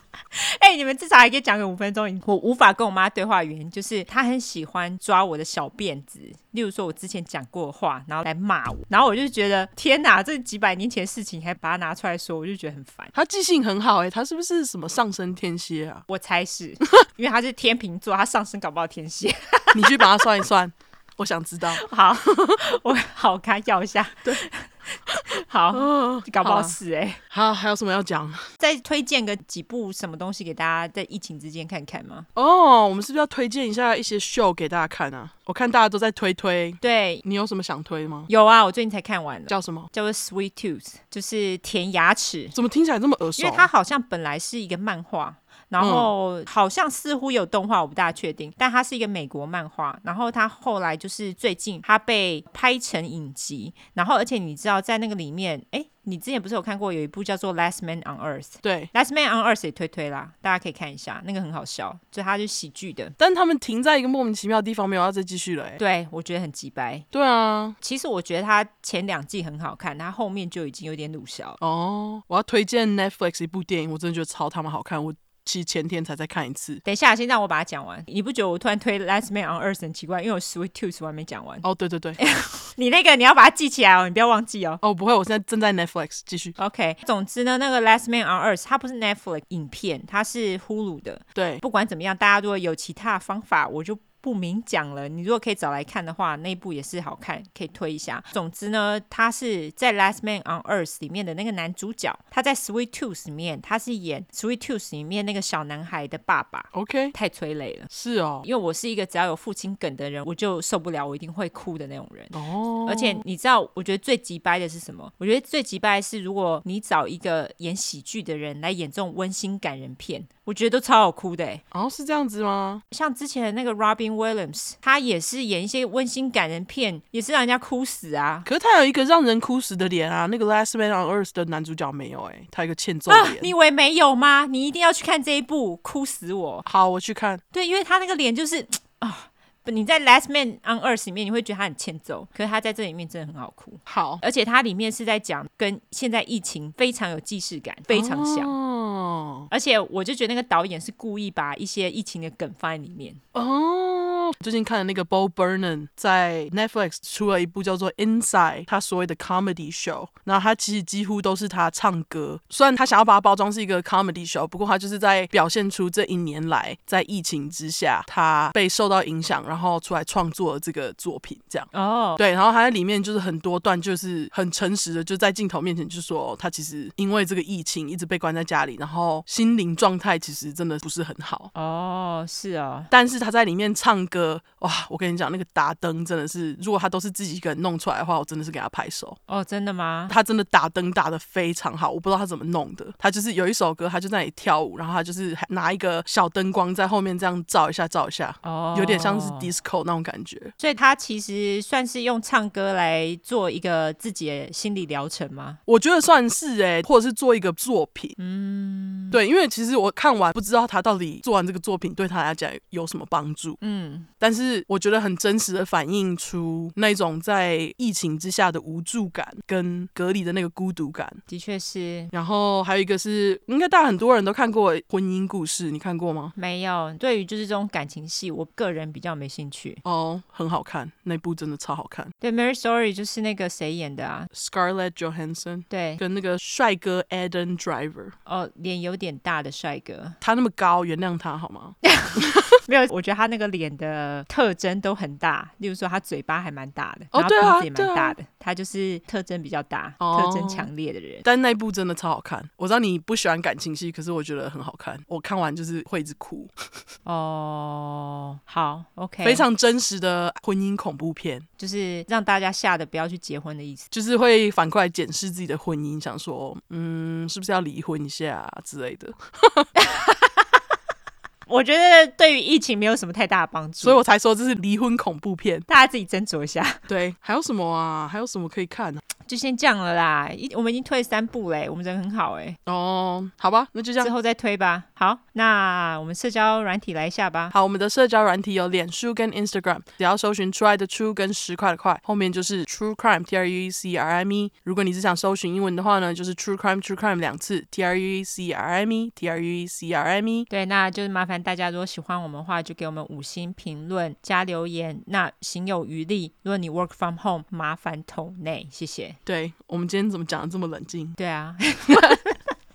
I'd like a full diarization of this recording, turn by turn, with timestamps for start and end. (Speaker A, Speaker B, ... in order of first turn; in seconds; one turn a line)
Speaker A: 0.3-13.1
Speaker B: 13.1-16.1
Speaker A: 16.1-20.1
Speaker B: 19.7-21.9
Speaker A: 21.7-27.2
Speaker B: 25.7-26.8
Speaker B: 27.3-28.5
Speaker A: 28.6-32.3
Speaker B: 32.4-38.3
Speaker A: 36.8-37.2
Speaker A: 38.3-42.6
Speaker B: 39.5-39.9
Speaker B: 42.5-43.7
Speaker A: 43.4-63.1
Speaker B: 45.8-46.1
Speaker B: 58.6-58.9
Speaker B: 63.2-65.8
Speaker A: 65.8-67.1
Speaker B: 67.1-67.8
Speaker A: 67.8-71.6
Speaker B: 71.6-76.8
Speaker A: 76.8-81.7
Speaker B: 81.6-82.2
Speaker A: 82.2-84.8
Speaker B: 84.8-86.6
Speaker A: 86.6-107.9
Speaker B: 91.4-91.6
Speaker B: 106.7-107.1
Speaker B: 107.9-108.5
Speaker A: 108.4-121.6
Speaker B: 112.3-113.2
Speaker B: 121.7-122.8
Speaker A: 122.9-128.5
Speaker B: 128.4-133.5
Speaker A: 133.1-136.7
Speaker B: 136.7-137.4
Speaker A: 137.5-148.5
Speaker B: 143.9-144.2
Speaker B: 147.9-149.5
Speaker A: 149.5-153.2
Speaker B: 153.3-181.5
Speaker A: 171.7-172.2
Speaker A: 181.6-182.9
Speaker B: 182.9-189.2
Speaker A: 189.3-190.1
Speaker B: 190.1-200.5
Speaker A: 198.4-199.5
Speaker A: 200.6-205.6
Speaker B: 205.7-208.2
Speaker A: 208.2-209.2
Speaker B: 209.1-213.6
Speaker A: 213.6-214.1
Speaker B: 214.2-221.2
Speaker A: 221.3-222.1
Speaker B: 222.1-226.3
Speaker A: 226.4-229.8
Speaker B: 229.8-232.1
Speaker A: 232.2-234.3
Speaker B: 234.3-238.2
Speaker A: 235.7-236.0
Speaker A: 238.3-240.2
Speaker B: 240.2-242.3
Speaker A: 241.8-251.3
Speaker B: 247.1-248.2
Speaker B: 250.0-250.7
Speaker B: 251.2-256.5
Speaker A: 257.1-259.4
Speaker B: 259.2-261.5
Speaker A: 261.6-263.9
Speaker B: 263.9-269.7
Speaker A: 269.8-270.3
Speaker A: 271.5-274.0
Speaker B: 273.8-275.7
Speaker A: 275.7-276.8
Speaker B: 276.9-279.0
Speaker A: 279.3-282.6
Speaker B: 282.6-284.1
Speaker A: 284.0-287.5
Speaker B: 287.5-300.5
Speaker A: 300.5-309.2
Speaker B: 309.3-311.1
Speaker A: 311.2-312.4
Speaker B: 311.9-312.2